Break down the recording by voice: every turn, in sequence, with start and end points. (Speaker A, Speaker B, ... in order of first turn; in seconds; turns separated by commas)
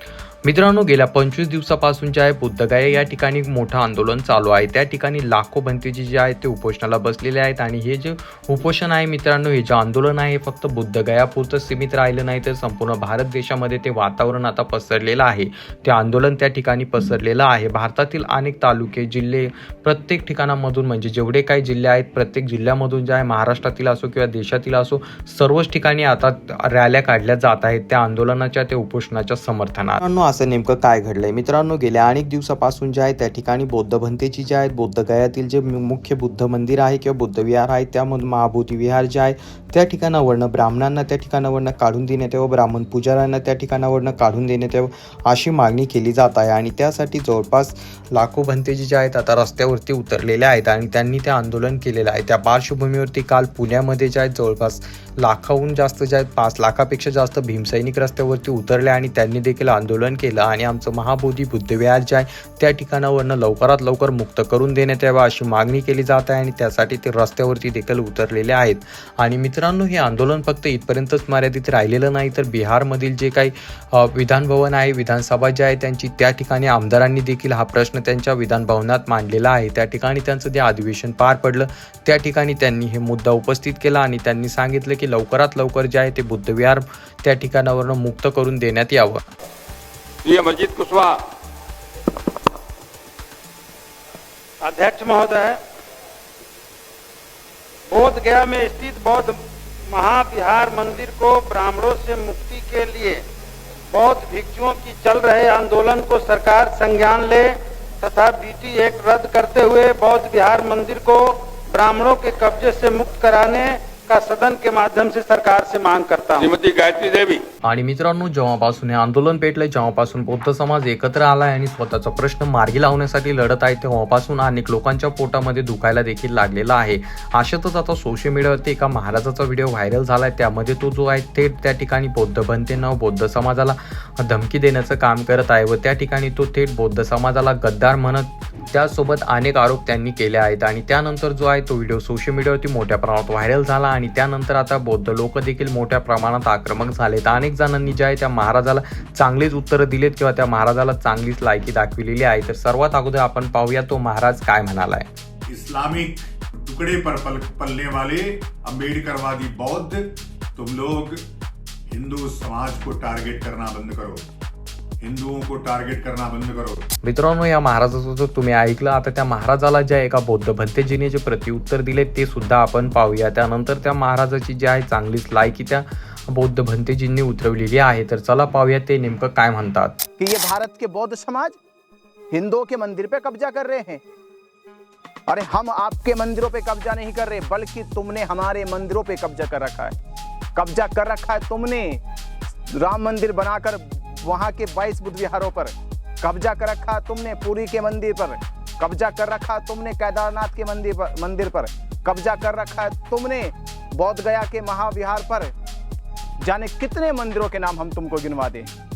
Speaker A: 0.4-89.2, Speaker B: 90.2-91.2, Speaker C: 94.6-95.6, Speaker C: 97.9-99.4, Speaker C: 99.9-103.2, Speaker C: 103.9-116.5, Speaker B: 116.4-117.4, Speaker A: 117.6-155.1, Speaker D: 155.5-161.2, Speaker D: 161.9-164.2, Speaker D: 165.0-166.8, Speaker A: 167.0-180.0, Speaker E: 180.2-181.6, Speaker E: 182.3-184.0, Speaker E: 185.3-189.9, Speaker E: 190.5-192.0, Speaker E: 192.7-205.5, Speaker E: 206.4-208.7